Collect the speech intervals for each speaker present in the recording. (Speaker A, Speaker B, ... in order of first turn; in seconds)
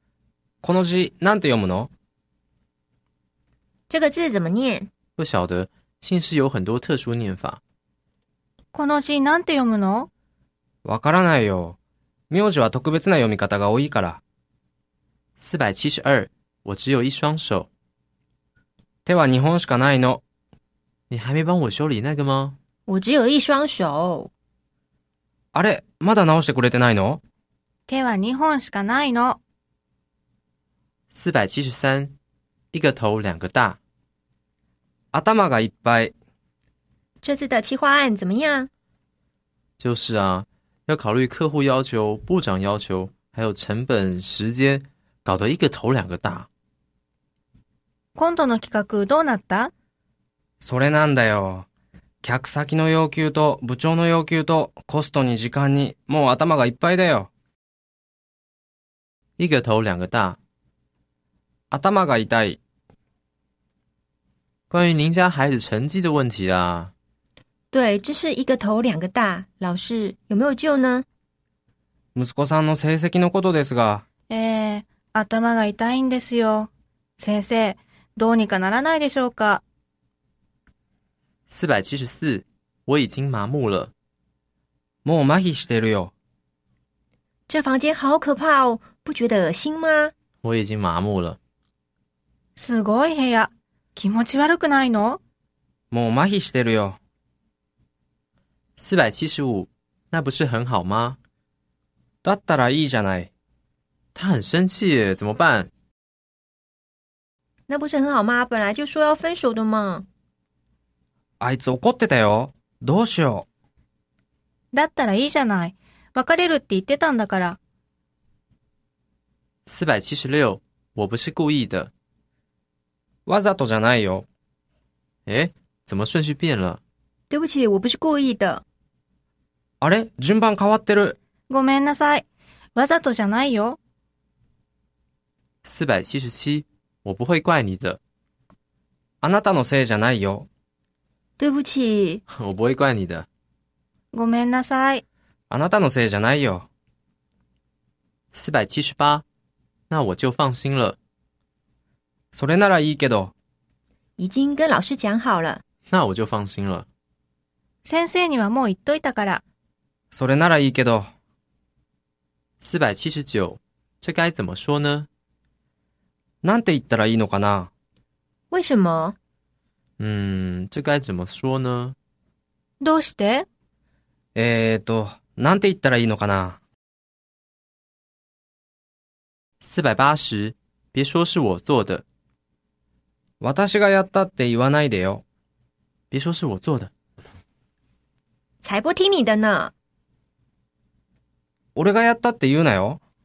Speaker A: 0.6-1.9, 10.8-11.8, 12.3-14.2, 19.1-20.2, 25.5-27.2, 35.1-36.1, 50.6-51.7, 52.2-57.3, 61.7-62.6, 72.1-74.1, 85.0-86.1, 95.9-97.0, 102.2-103.3, 111.4-113.5, 123.3-124.3, 129.8-131.2, 139.2-140.5, 145.5-146.7, 152.3-153.3, 160.1-161.1, 166.4-167.7, 174.3-176.6, 183.4-185.2, 191.8-193.0
Speaker B: 3.9-4.9, 22.9-24.3, 37.2-38.7, 67.7-71.1, 87.5-90.1, 107.7-110.1, 127.3-128.6, 141.4-142.2, 154.2-155.6, 168.5-169.2, 188.6-189.7
Speaker C: 5.2-7.6, 15.4-17.7, 21.1-22.6, 31.1-32.1, 32.7-33.8, 39.8-46.5, 59.4-60.4, 64.7-66.9, 81.5-83.9, 90.4-91.4, 98.8-101.2, 104.2-105.7, 119.7-121.9, 125.3-126.8, 135.7-138.0, 142.3-143.3, 148.3-149.2, 149.9-151.0, 155.9-156.9, 162.6-165.1, 170.0-172.0, 179.6-182.0, 186.1-186.9
Speaker D: 8.7-10.1, 27.9-29.4, 48.1-49.7, 74.3-79.6, 92.6-95.2, 114.7-117.6, 131.5-132.2, 132.8-133.8, 144.1-145.0, 157.8-159.4, 172.8-173.5